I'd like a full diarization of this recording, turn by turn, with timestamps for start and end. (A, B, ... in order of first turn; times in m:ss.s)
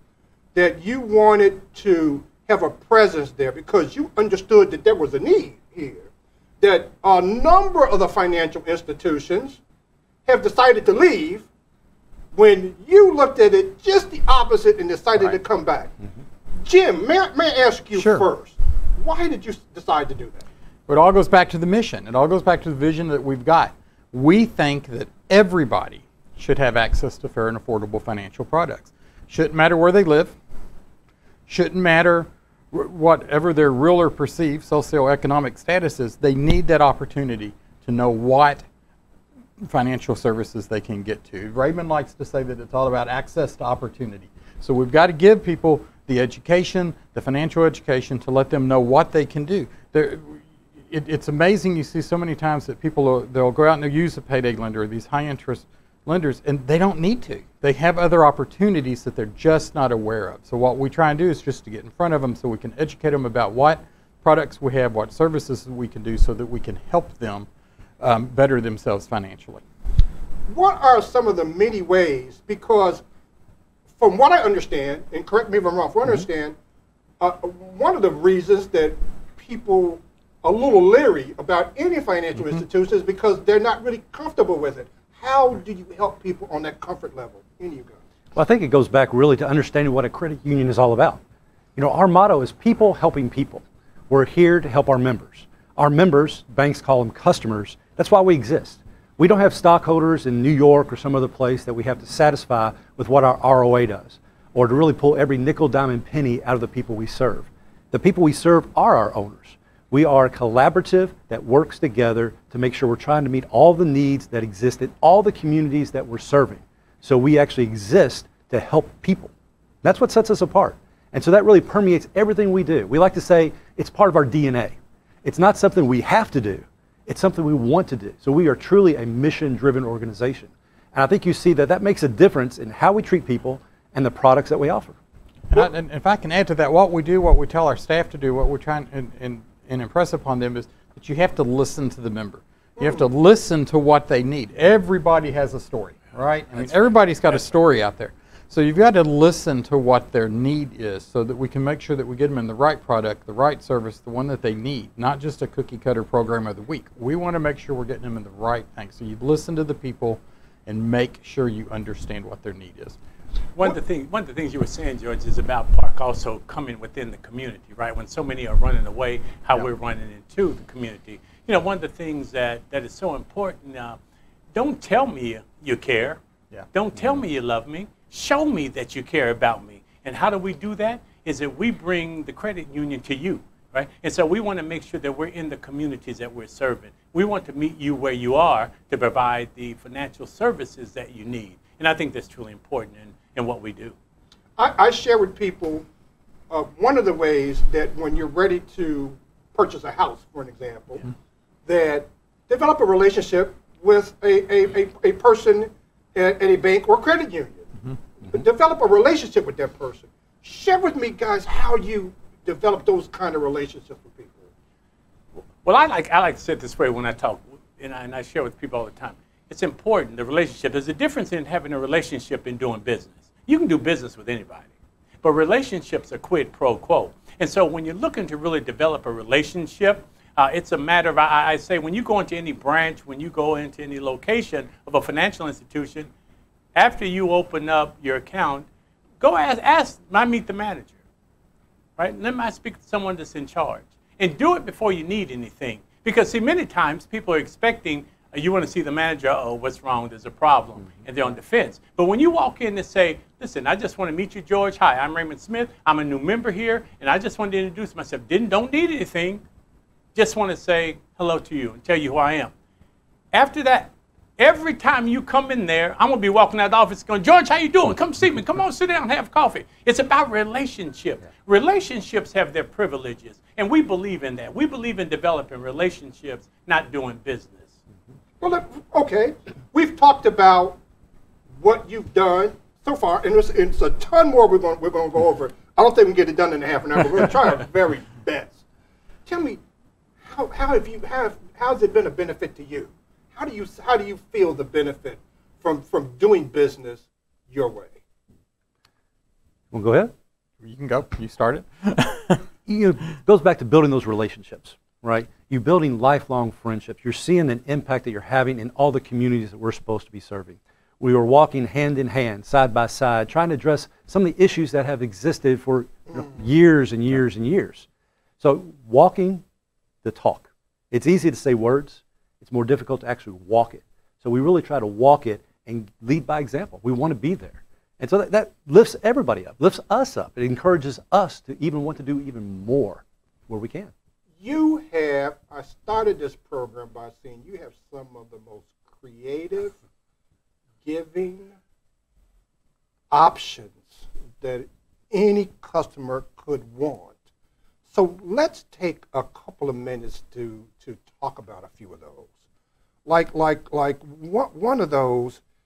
0:00.5-0:06.1 A
0:06.6-0:09.6 A
0:10.3-0:11.5 A
0:12.3-0:16.0 A
0:16.6-0:20.4 A
0:18.0-0:18.3 B
0:20.9-0:30.4 B
0:31.5-0:38.7 B
0:39.6-1:07.5 B
1:08.0-1:09.6 B
1:10.5-1:13.0 A
1:14.0-1:16.6 A
1:17.2-1:28.0 A
1:28.4-1:31.2 C
1:31.8-1:59.3 C
1:59.8-2:15.0 C
2:15.5-2:43.0 B
2:43.6-2:54.0 D
2:54.6-2:56.2 D
2:56.7-3:14.0 D
3:14.6-3:15.9 A
3:16.5-3:21.0 A
3:21.7-3:34.5 A
3:35.6-3:44.7 D
3:45.2-3:56.1 D
3:56.8-3:58.7 D
3:59.2-4:01.0 D
4:02.0-4:19.4 D
4:20.2-4:22.5 D
4:23.3-4:37.8 D
4:38.4-4:40.8 A
4:41.6-4:48.6 A
4:49.3-4:49.6 A
4:50.2-4:58.0 A
4:59.7-5:00.1 C
5:00.6-5:02.4 B
5:02.7-5:17.9 C
5:18.4-5:19.4 C
5:20.0-5:33.9 C
5:34.4-5:39.8 A
5:40.8-5:41.6 A
5:43.1-5:47.2 A
5:47.9-5:52.3 A
5:53.1-5:55.4 A